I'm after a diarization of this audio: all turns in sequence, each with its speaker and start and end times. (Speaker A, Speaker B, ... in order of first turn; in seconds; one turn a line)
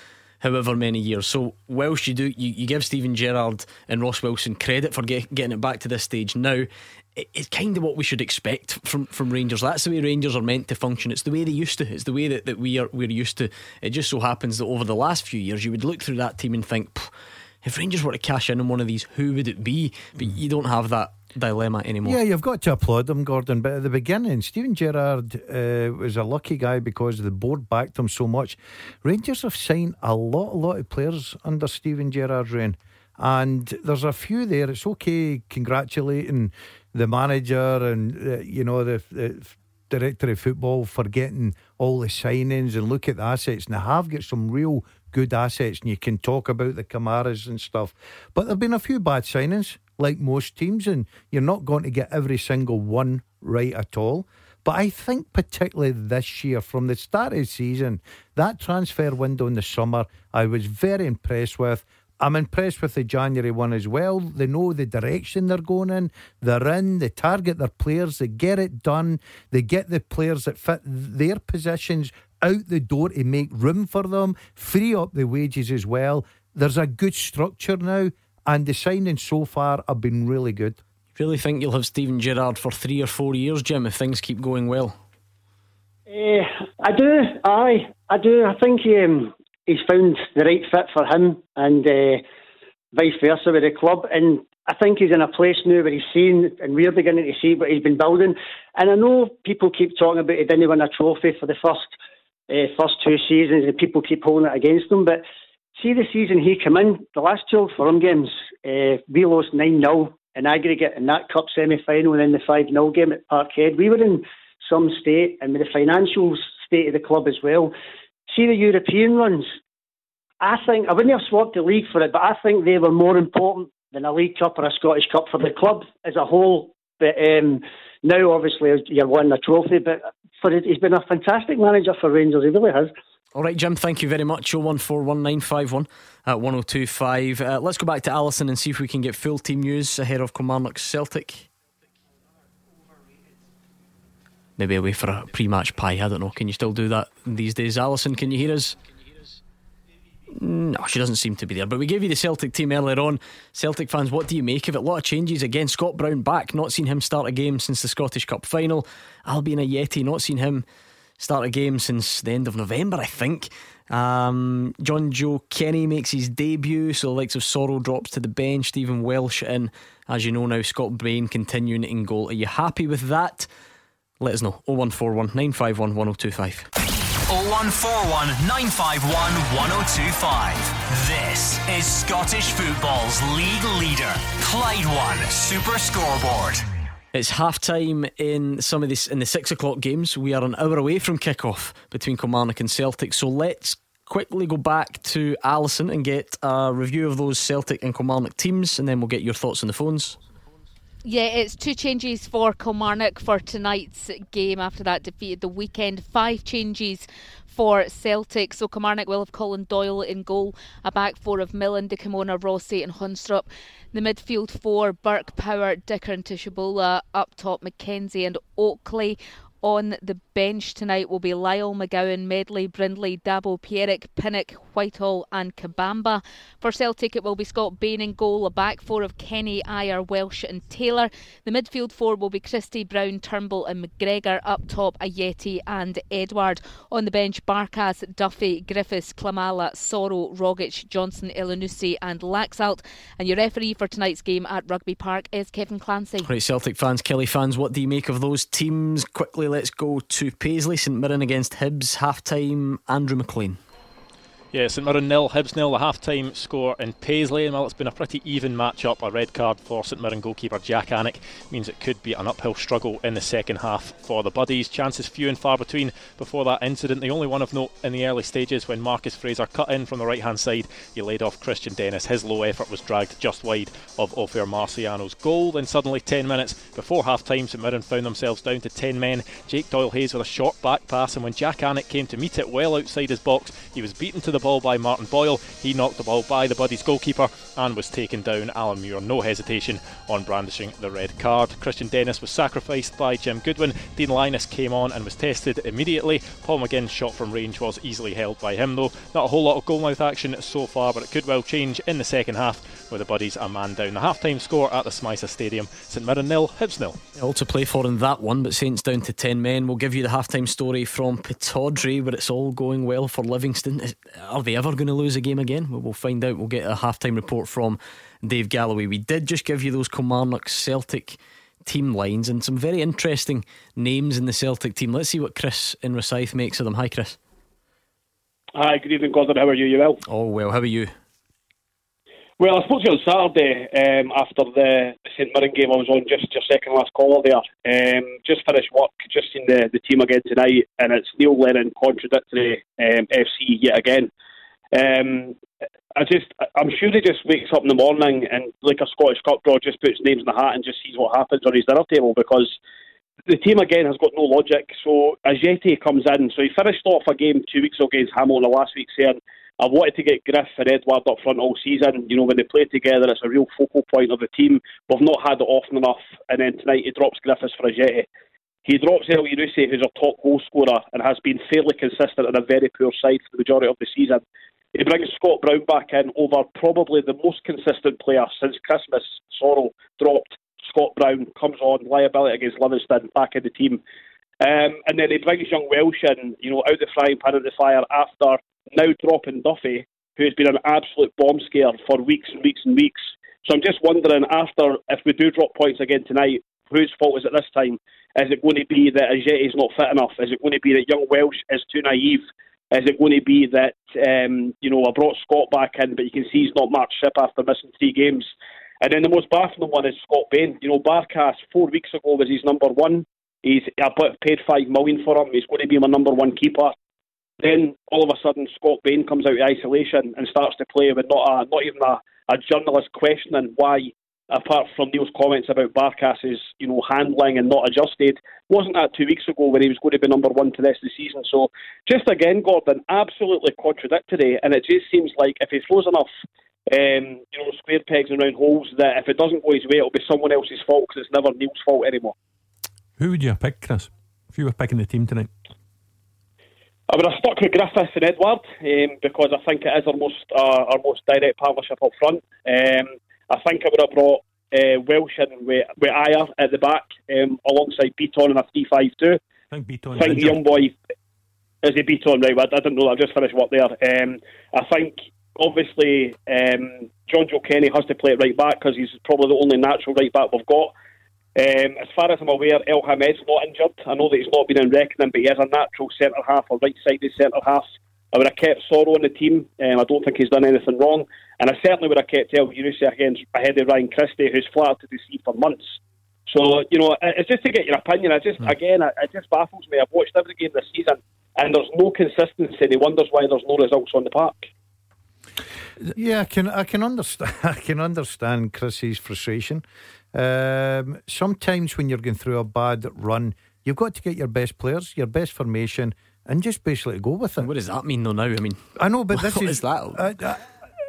Speaker A: 0.4-17.1
Speaker A: 17.6-22.2
Speaker B: 22.0-80.8
Speaker A: 81.2-85.0
Speaker C: 86.1-92.2
Speaker C: 92.9-102.0
Speaker C: 102.5-105.2
Speaker C: 105.8-117.7
Speaker C: 118.3-119.5
Speaker C: 120.4-132.9
Speaker A: 133.3-141.5
Speaker A: 144.6-148.8
Speaker A: 150.3-160.6
Speaker A: 161.2-173.5
Speaker A: 174.2-176.7
Speaker D: 177.3-186.7
Speaker A: 187.1-200.2
Speaker E: 201.0-246.3
Speaker A: 246.2-253.6
Speaker F: 254.5-307.0
Speaker A: 307.1-327.2
Speaker G: 328.6-330.0
Speaker A: 330.1-330.9
Speaker G: 332.4-344.1
Speaker G: 344.7-345.3
Speaker G: 345.9-352.6
Speaker G: 353.3-368.1
Speaker G: 368.6-374.2
Speaker G: 374.7-383.8
Speaker G: 384.4-408.3
Speaker G: 408.8-416.7
Speaker G: 417.4-436.1
Speaker G: 436.7-442.1
Speaker H: 443.0-445.3
Speaker G: 446.9-459.2
Speaker H: 459.5-460.4
Speaker G: 459.9-460.7
Speaker G: 461.6-470.7
Speaker G: 471.4-485.8
Speaker G: 486.3-494.5
Speaker B: 495.9-507.5
Speaker A: 507.4-508.6
Speaker B: 508.8-510.4
Speaker A: 509.1-510.1